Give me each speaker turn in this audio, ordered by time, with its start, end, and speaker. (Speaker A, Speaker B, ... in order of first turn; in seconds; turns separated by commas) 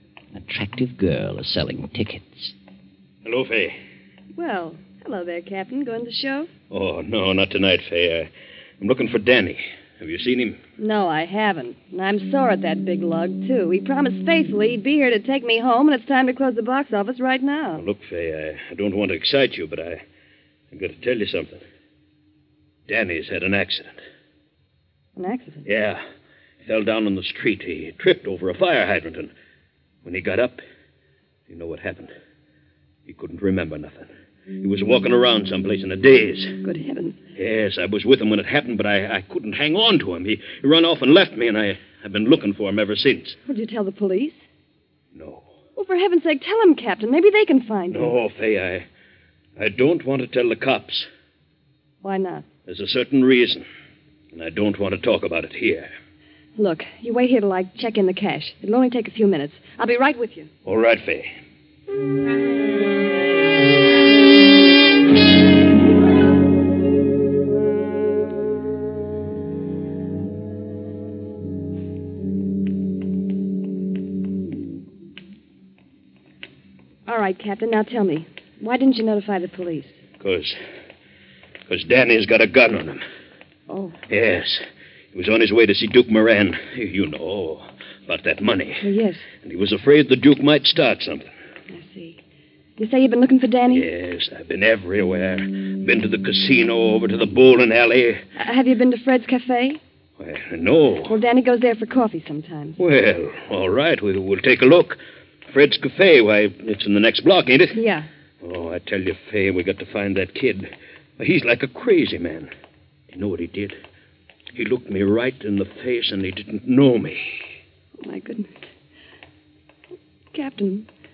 Speaker A: 0.3-2.5, Speaker B: 3.2-3.8, Speaker C: 4.4-6.5, Speaker B: 6.7-8.3, Speaker B: 8.8-10.6, Speaker C: 10.8-17.8, Speaker B: 17.8-20.0, Speaker B: 20.7-21.6, Speaker B: 22.9-24.0, Speaker C: 25.2-25.7, Speaker B: 25.7-26.0, Speaker B: 26.6-29.3, Speaker B: 30.1-30.6, Speaker B: 31.5-32.1, Speaker B: 33.1-34.1, Speaker B: 34.6-36.6, Speaker C: 36.6-37.2, Speaker B: 37.4-43.4, Speaker C: 43.5-44.4, Speaker B: 45.1-45.5, Speaker C: 45.8-48.1, Speaker B: 47.9-48.9, Speaker B: 49.6-51.1, Speaker C: 52.0-52.5, Speaker B: 52.7-53.6, Speaker B: 54.3-55.9, Speaker C: 56.6-60.5, Speaker B: 60.6-61.3, Speaker C: 77.1-80.0, Speaker B: 80.2-80.6, Speaker B: 81.7-83.0, Speaker C: 83.7-84.0, Speaker B: 84.1-84.6, Speaker B: 85.1-88.9, Speaker C: 88.8-89.2, Speaker B: 89.4-91.3, Speaker C: 91.7-92.2, Speaker C: 92.8-93.9, Speaker B: 93.7-98.2, Speaker C: 98.4-99.8, Speaker B: 100.2-101.2, Speaker C: 101.1-102.8, Speaker B: 102.8-107.8, Speaker C: 107.7-108.1, Speaker B: 108.4-112.5, Speaker B: 113.1-113.8, Speaker B: 114.5-117.4, Speaker C: 118.0-118.7, Speaker C: 120.3-120.9